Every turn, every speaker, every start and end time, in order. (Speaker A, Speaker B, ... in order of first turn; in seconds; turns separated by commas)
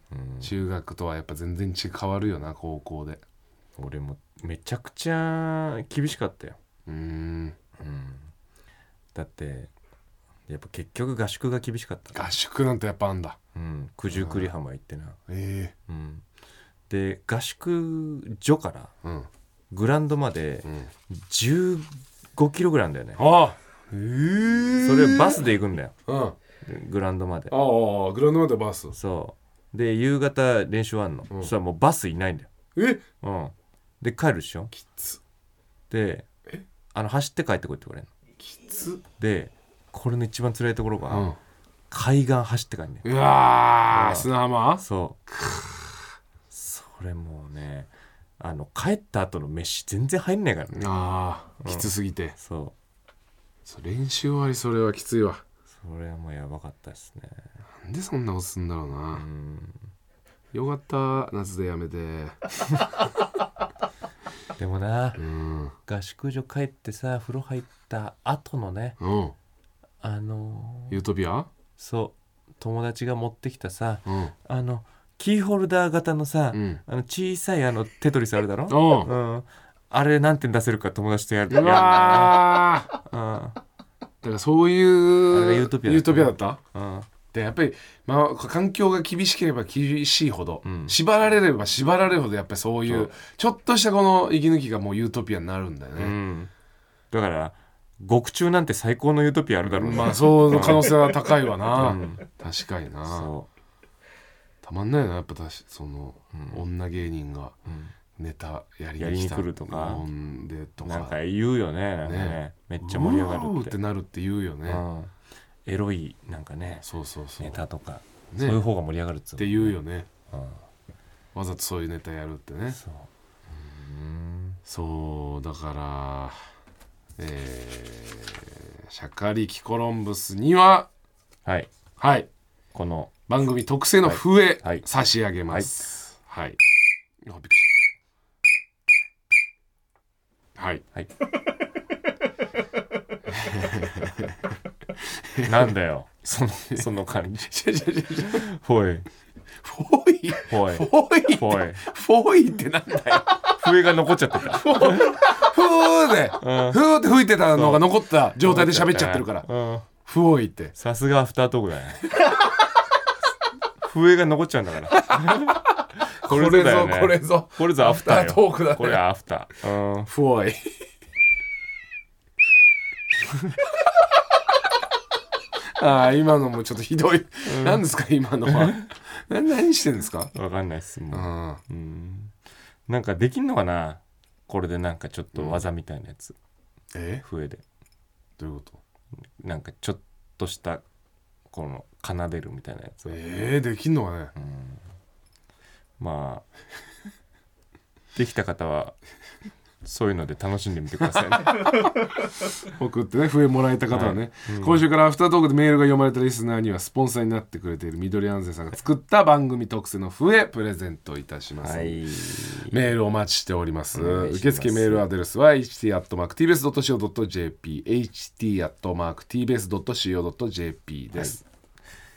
Speaker A: 0.1-0.5, Speaker B: 0.4-3.2, Speaker A: 3.8-6.6, Speaker B: 6.9-7.5, Speaker A: 7.8-8.3, Speaker A: 9.1-9.7, Speaker A: 10.5-12.3, Speaker B: 12.1-13.4, Speaker A: 13.5-15.2, Speaker B: 14.1-14.5, Speaker B: 15.3-15.7, Speaker A: 15.9-16.2, Speaker A: 16.9-18.9, Speaker A: 19.7-23.2, Speaker B: 20.6-20.9, Speaker B: 23.2-25.4, Speaker A: 24.8-25.9, Speaker B: 26.1-26.4, Speaker A: 26.6-27.6, Speaker B: 27.5-28.9, Speaker A: 28.9-32.5, Speaker B: 32.8-33.0, Speaker A: 33.2-34.7, Speaker B: 34.7-35.2, Speaker A: 35.9-36.3, Speaker A: 36.9-38.1, Speaker B: 38.4-39.0, Speaker A: 39.1-41.3, Speaker B: 41.1-41.4, Speaker A: 41.9-43.1, Speaker B: 43.0-46.1, Speaker A: 43.9-45.2, Speaker A: 46.5-51.0, Speaker B: 50.7-52.4, Speaker A: 51.6-52.8, Speaker B: 53.6-55.4, Speaker A: 55.7-57.4, Speaker B: 57.8-59.2, Speaker A: 59.1-59.9, Speaker B: 60.5-62.4, Speaker A: 64.5-65.2, Speaker B: 65.2-65.7, Speaker A: 65.8-69.0, Speaker B: 69.0-69.3, Speaker A: 70.0-71.0, Speaker B: 70.9-71.5, Speaker A: 71.8-83.6, Speaker B: 74.0-74.3, Speaker B: 76.5-76.8, Speaker B: 78.7-79.1, Speaker B: 81.5-82.9, Speaker B: 84.2-86.6, Speaker A: 85.3-87.1, Speaker B: 87.3-96.2, Speaker A: 90.6-91.0, Speaker A: 92.9-93.1, Speaker A: 96.0-96.5, Speaker A: 97.1-102.2, Speaker B: 99.7-103.3, Speaker A: 103.1-103.5, Speaker B: 104.6-107.5, Speaker A: 106.3-106.6, Speaker A: 107.7-107.9, Speaker B: 108.2-111.2, Speaker A: 109.0-110.0, Speaker A: 110.8-113.8, Speaker B: 112.0-114.8, Speaker A: 114.7-115.1, Speaker A: 115.6-116.8, Speaker B: 116.8-117.6, Speaker A: 117.4-119.8, Speaker B: 118.3-118.6, Speaker B: 119.4-120.1, Speaker A: 120.3-120.6, Speaker B: 121.3-122.8, Speaker A: 122.7-124.6, Speaker B: 124.7-126.4, Speaker B: 127.2-130.9, Speaker A: 131.4-131.7, Speaker B: 132.0-132.3, Speaker A: 132.7-133.2, Speaker B: 133.3-136.6, Speaker A: 134.0-135.8, Speaker B: 137.2-137.7, Speaker B: 140.6-140.8, Speaker B: 143.3-144.3, Speaker A: 145.4-147.5, Speaker B: 147.4-148.4, Speaker A: 148.2-149.1, Speaker B: 149.6-153.4, Speaker A: 150.5-151.8, Speaker A: 153.5-155.2, Speaker B: 154.4-159.5, Speaker A: 156.4-156.8, Speaker A: 157.5-159.9, Speaker B: 160.0-160.7, Speaker A: 160.8-162.1, Speaker A: 163.8-170.1, Speaker B: 166.2-169.0, Speaker B: 170.1-170.7, Speaker B: 175.8-180.3, Speaker A: 177.4-177.8, Speaker A: 178.5-178.8, Speaker A: 180.3-182.3, Speaker B: 181.1-181.6, Speaker A: 182.9-186.4, Speaker B: 185.3-185.6, Speaker B: 186.9-187.2, Speaker A: 187.2-187.6, Speaker B: 188.4-188.8, Speaker A: 189.4-190.8, Speaker A: 191.5-193.2, Speaker B: 193.1-194.3, Speaker A: 194.3-194.8, Speaker A: 196.0-196.4, Speaker A: 198.1-199.0, Speaker A: 199.8-201.9, Speaker B: 202.7-212.0, Speaker A: 203.9-204.8, Speaker A: 211.6-212.8, Speaker B: 212.7-221.4, Speaker A: 213.9-215.1, Speaker A: 221.1-221.4